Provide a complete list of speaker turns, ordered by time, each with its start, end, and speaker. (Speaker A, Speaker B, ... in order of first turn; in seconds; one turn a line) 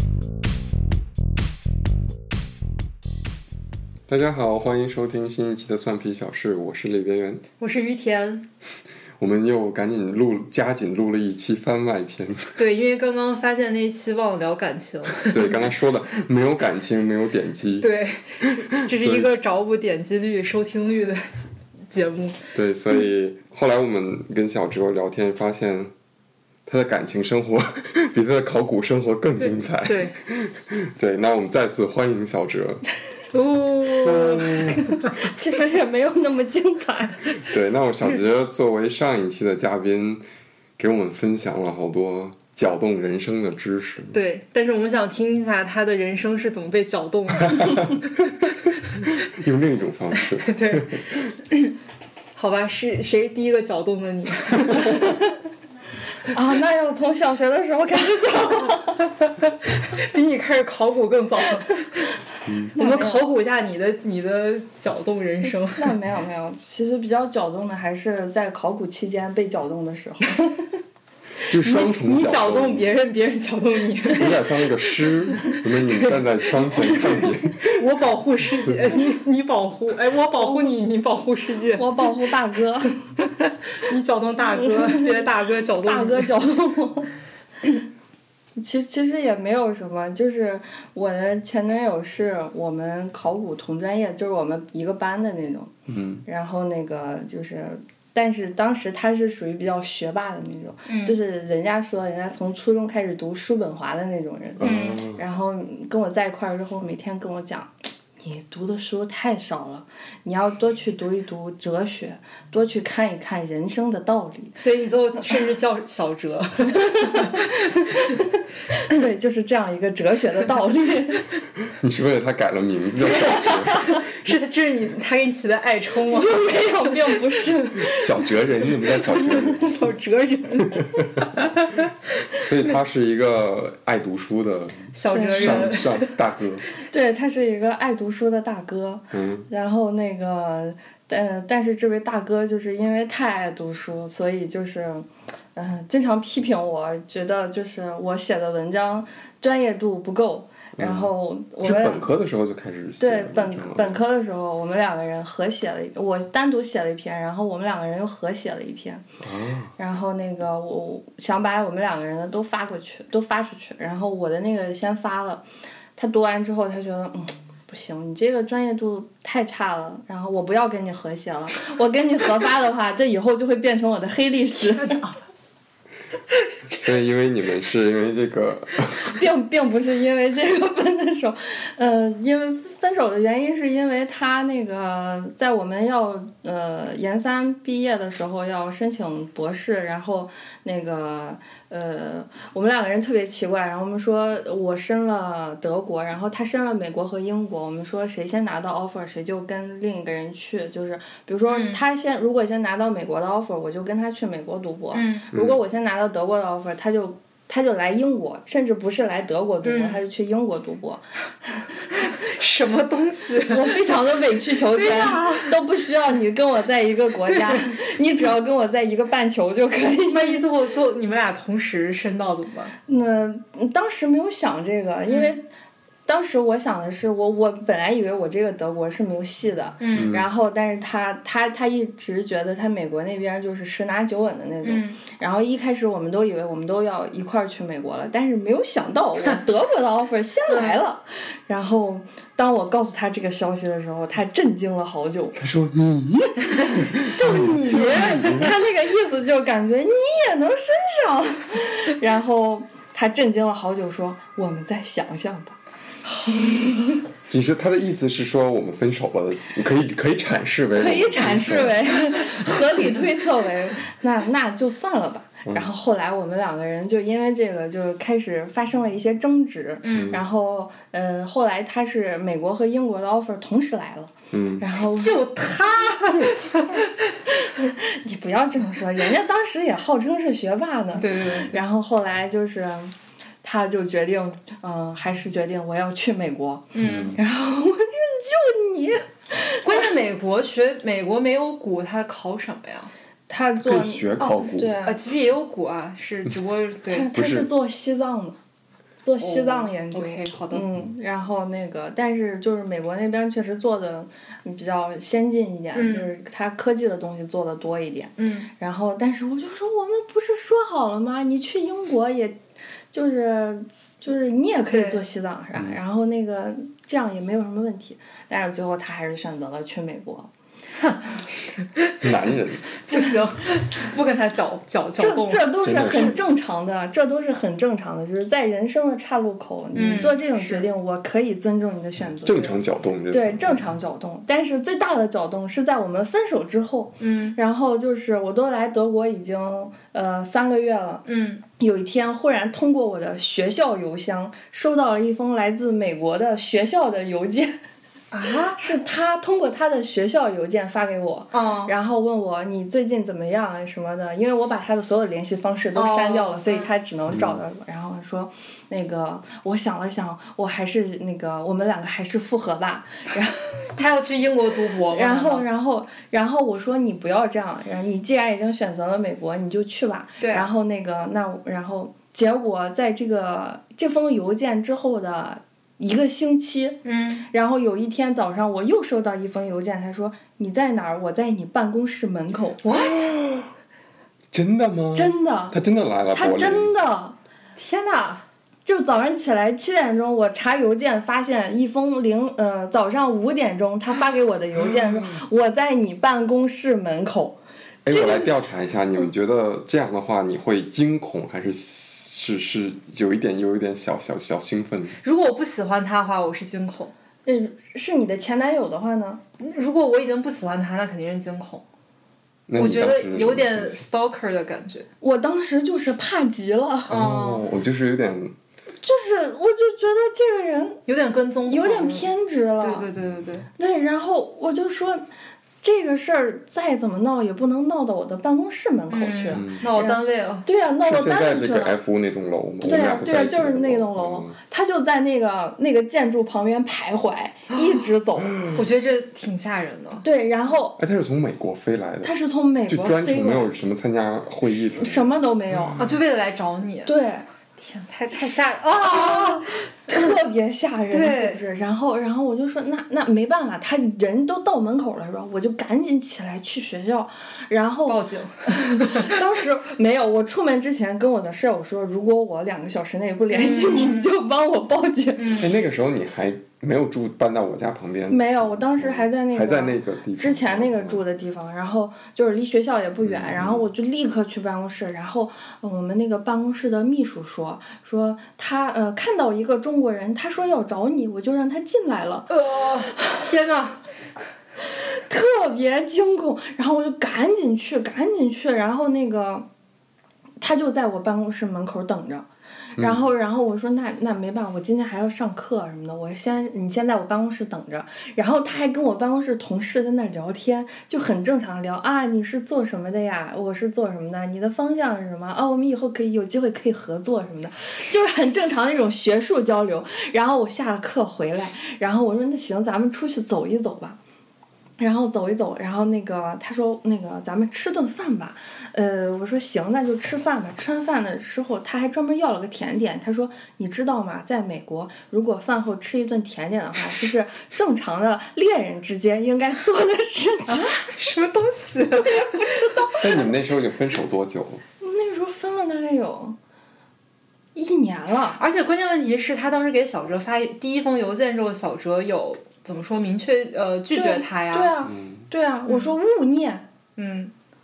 Speaker A: 4.1-7.4
Speaker B: 7.6-8.5
Speaker A: 9.2-12.6
Speaker B: 12.6-15.7
Speaker A: 15.2-17.9
Speaker B: 17.8-22.4
Speaker A: 18.4-19.3
Speaker A: 22.6-25.9
Speaker A: 26.7-32.8
Speaker B: 29.4-30.1
Speaker B: 33.3-35.2
Speaker A: 34.0-34.9
Speaker C: 34.4-37.5
Speaker A: 37.4-40.2
Speaker A: 40.8-44.2
Speaker B: 44.1-48.3
Speaker A: 47.5-48.0
Speaker A: 49.0-51.0
Speaker B: 50.4-51.7
Speaker B: 52.4-55.2
Speaker C: 56.2-59.1
Speaker B: 59.2-62.1
Speaker A: 62.5-62.7
Speaker C: 62.8-63.2
Speaker B: 62.8-65.9
Speaker C: 65.7-70.7
Speaker A: 71.5-72.9
Speaker B: 71.6-74.4
Speaker A: 74.1-77.9
Speaker B: 75.9-82.1
Speaker C: 80.4-80.7
Speaker C: 81.8-83.0
Speaker B: 83.2-86.3
Speaker C: 84.6-85.3
Speaker C: 85.8-87.8
Speaker C: 88.6-95.7
Speaker A: 95.9-96.2
Speaker C: 96.3-114.6
Speaker B: 100.9-101.2
Speaker A: 104.6-105.2
Speaker B: 104.6-105.0
Speaker B: 114.6-117.6
Speaker C: 116.7-121.2
Speaker A: 121.7-123.8
Speaker B: 123.0-126.3
Speaker C: 126.1-128.2
Speaker A: 127.8-129.8
Speaker C: 129.2-129.6
Speaker B: 129.5-131.9
Speaker A: 132.4-136.7
Speaker B: 134.9-136.1
Speaker C: 135.1-135.8
Speaker C: 136.8-152.1
Speaker A: 139.1-139.5
Speaker A: 150.8-154.0
Speaker C: 153.0-159.0
Speaker A: 159.2-159.7
Speaker C: 159.8-165.4
Speaker C: 166.0-175.0
Speaker B: 174.6-175.2
Speaker A: 176.7-179.2
Speaker C: 179.0-211.7
Speaker B: 201.5-201.8
Speaker B: 204.9-205.2
Speaker A: 205.3-205.6
Speaker B: 209.6-210.0
Speaker B: 211.9-213.8
Speaker C: 213.5-220.4
Speaker B: 214.7-215.6
Speaker B: 217.3-217.6
Speaker B: 220.1-222.7
Speaker C: 222.9-225.4
Speaker C: 226.1-245.4
Speaker B: 229.8-230.1
Speaker A: 229.9-230.3
Speaker B: 234.6-235.0
Speaker B: 240.5-240.8
Speaker A: 245.4-248.5
Speaker B: 247.1-248.4
Speaker C: 247.2-257.0
Speaker A: 257.3-261.8
Speaker C: 260.7-275.2
Speaker B: 269.8-270.2
Speaker A: 269.9-270.2
Speaker A: 274.3-274.6
Speaker B: 275.0-276.9
Speaker C: 276.1-276.9
Speaker C: 277.4-289.9
Speaker B: 280.9-281.6
Speaker B: 286.7-287.2
Speaker A: 286.8-287.2
Speaker B: 289.6-292.9
Speaker C: 293.3-295.0
Speaker A: 293.6-294.8
Speaker B: 294.2-297.1
Speaker C: 296.9-298.4
Speaker A: 297.1-297.5
Speaker C: 299.0-312.4
Speaker B: 299.2-300.6
Speaker B: 305.8-306.1
Speaker B: 308.2-308.5
Speaker C: 312.9-320.3
Speaker B: 314.7-315.0
Speaker A: 322.0-322.7
Speaker B: 322.8-325.5
Speaker C: 322.9-323.2
Speaker C: 325.0-332.6
Speaker A: 325.6-326.2
Speaker B: 329.7-330.7
Speaker A: 332.0-333.7
Speaker C: 333.1-341.1
Speaker B: 337.0-337.4
Speaker B: 341.1-341.4
Speaker C: 341.6-347.6
Speaker B: 348.1-348.7
Speaker C: 348.5-363.7
Speaker B: 351.3-351.7
Speaker B: 355.8-356.7
Speaker A: 357.1-357.4
Speaker B: 363.8-365.5
Speaker C: 364.9-382.7
Speaker B: 370.2-370.5
Speaker B: 376.9-377.3
Speaker B: 382.6-383.2
Speaker A: 382.7-383.5
Speaker A: 384.3-386.7
Speaker C: 384.9-385.6
Speaker C: 386.1-387.2
Speaker B: 387.6-388.2
Speaker C: 388.6-397.4
Speaker A: 394.6-395.1
Speaker A: 397.9-405.0
Speaker B: 397.9-398.3
Speaker B: 405.0-406.9
Speaker C: 407.3-409.2
Speaker B: 409.4-411.6
Speaker A: 412.5-413.8
Speaker B: 412.6-414.9
Speaker C: 415.0-417.0
Speaker B: 416.9-417.4
Speaker A: 416.9-418.4
Speaker C: 418.8-420.8
Speaker B: 420.9-422.1
Speaker C: 421.5-422.9
Speaker B: 422.6-423.5
Speaker C: 423.6-425.1
Speaker C: 425.6-431.8
Speaker B: 428.9-430.5
Speaker A: 429.3-429.6
Speaker A: 430.8-434.4
Speaker C: 432.6-438.4
Speaker B: 437.5-437.8
Speaker A: 438.2-438.7
Speaker B: 438.6-440.0
Speaker C: 440.0-440.8
Speaker A: 440.8-442.1
Speaker C: 442.0-443.5
Speaker A: 442.7-446.0
Speaker C: 444.4-445.8
Speaker B: 445.8-446.9
Speaker C: 446.9-447.2
Speaker B: 447.6-449.6
Speaker C: 448.1-465.4
Speaker B: 450.9-451.4
Speaker B: 457.9-459.1
Speaker B: 463.3-464.1
Speaker B: 465.2-465.5
Speaker A: 465.4-471.0
Speaker C: 468.1-482.3
Speaker A: 473.0-473.6
Speaker B: 482.3-483.8
Speaker C: 482.9-483.3
Speaker C: 484.6-489.5
Speaker C: 490.4-514.0
Speaker A: 492.8-493.1
Speaker C: 514.8-530.8
Speaker B: 530.5-532.9
Speaker C: 532.1-533.2
Speaker A: 533.0-534.6
Speaker C: 534.8-536.4
Speaker C: 537.5-538.4
Speaker B: 538.4-544.7
Speaker C: 543.9-546.7
Speaker A: 544.8-545.3
Speaker B: 545.7-545.9
Speaker B: 547.0-547.3